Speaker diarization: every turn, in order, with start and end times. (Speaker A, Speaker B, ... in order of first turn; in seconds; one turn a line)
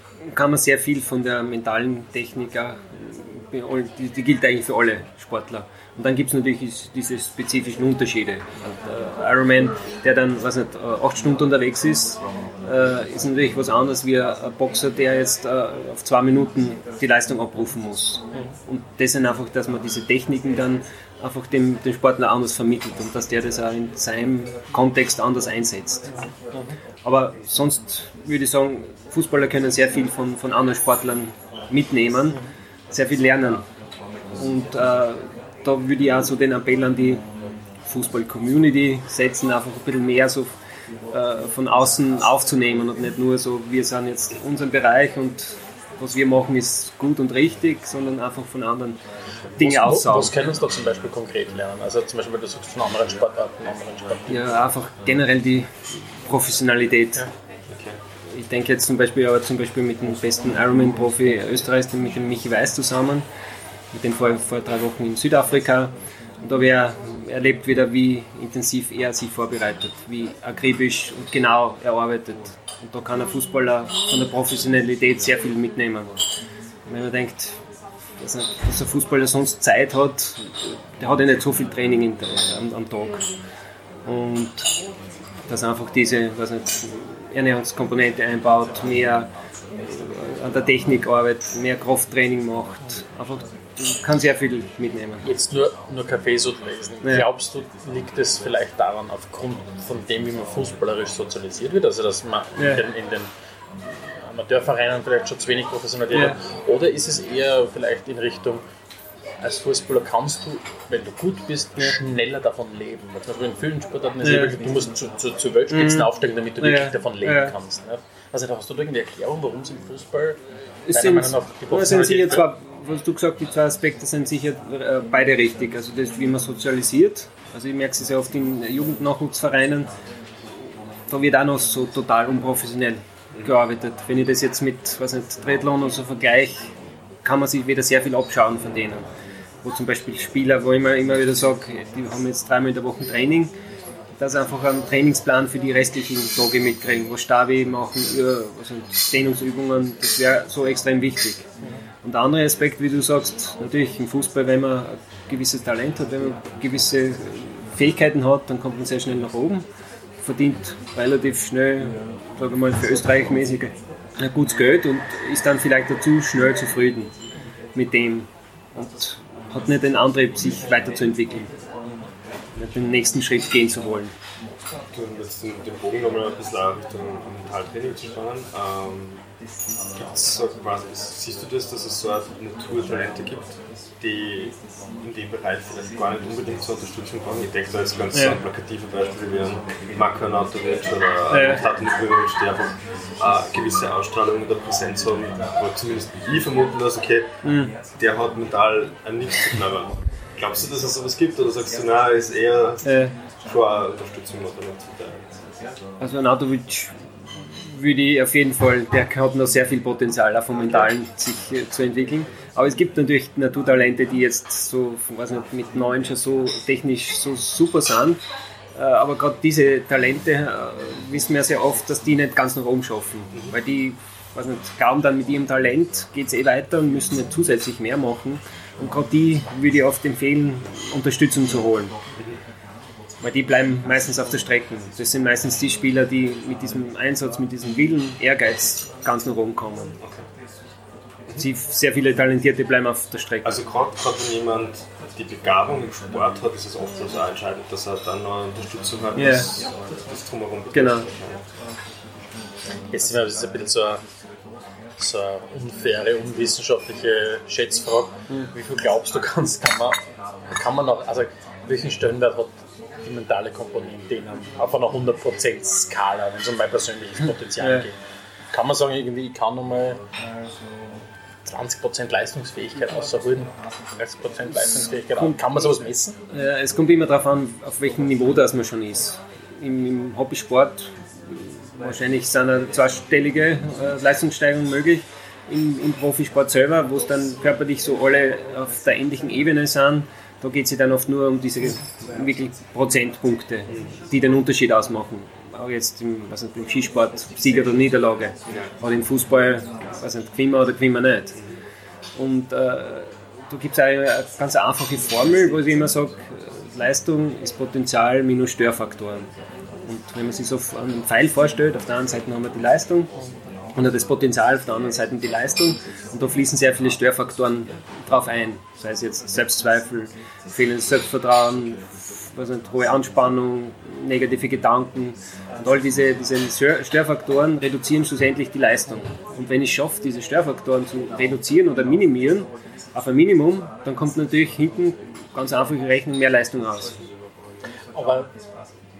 Speaker A: 0.2-26.1
Speaker A: 27.0-33.6
Speaker A: 34.4-37.2
Speaker A: 37.9-40.5
Speaker A: 41.1-49.0
Speaker A: 49.6-50.4
Speaker B: 49.6-54.4
Speaker A: 54.3-57.3
Speaker C: 57.7-58.0
Speaker A: 58.3-63.3
Speaker A: 63.9-76.2
Speaker A: 76.9-77.6
Speaker A: 78.2-83.2
Speaker A: 84.0-84.7
Speaker A: 85.5-89.3
Speaker A: 89.8-95.3
Speaker B: 95.2-103.3
Speaker A: 97.0-97.3
Speaker A: 102.5-102.8
Speaker B: 104.1-108.6
Speaker A: 106.1-106.4
Speaker B: 109.4-120.4
Speaker A: 114.2-114.6
Speaker A: 115.7-117.5
Speaker A: 120.9-129.9
Speaker B: 120.9-122.4
Speaker A: 131.1-136.7
Speaker A: 137.2-139.1
Speaker A: 139.6-143.5
Speaker A: 144.2-151.5
Speaker A: 152.0-159.7
Speaker A: 160.2-167.1
Speaker A: 167.7-171.5
Speaker A: 172.6-174.1
Speaker C: 174.9-179.2
Speaker B: 180.0-180.2
Speaker C: 180.1-197.3
Speaker A: 188.1-188.4
Speaker A: 191.3-191.6
Speaker A: 197.4-197.7
Speaker C: 197.8-202.8
Speaker A: 202.8-203.1
Speaker C: 203.4-205.2
Speaker A: 206.0-206.9
Speaker A: 207.5-218.2
Speaker A: 218.7-231.9
Speaker A: 233.2-239.9
Speaker A: 241.3-243.6
Speaker C: 243.4-251.4
Speaker A: 249.2-249.5
Speaker A: 250.7-251.1
Speaker B: 252.9-254.0
Speaker B: 255.0-260.0
Speaker B: 260.5-267.9
Speaker A: 267.6-267.9
Speaker B: 268.5-270.0
Speaker B: 271.4-276.2
Speaker A: 274.7-275.4
Speaker A: 276.3-301.4
Speaker C: 293.7-294.0
Speaker A: 302.1-309.3
Speaker A: 309.8-313.1
Speaker A: 313.7-337.0
Speaker B: 337.9-338.3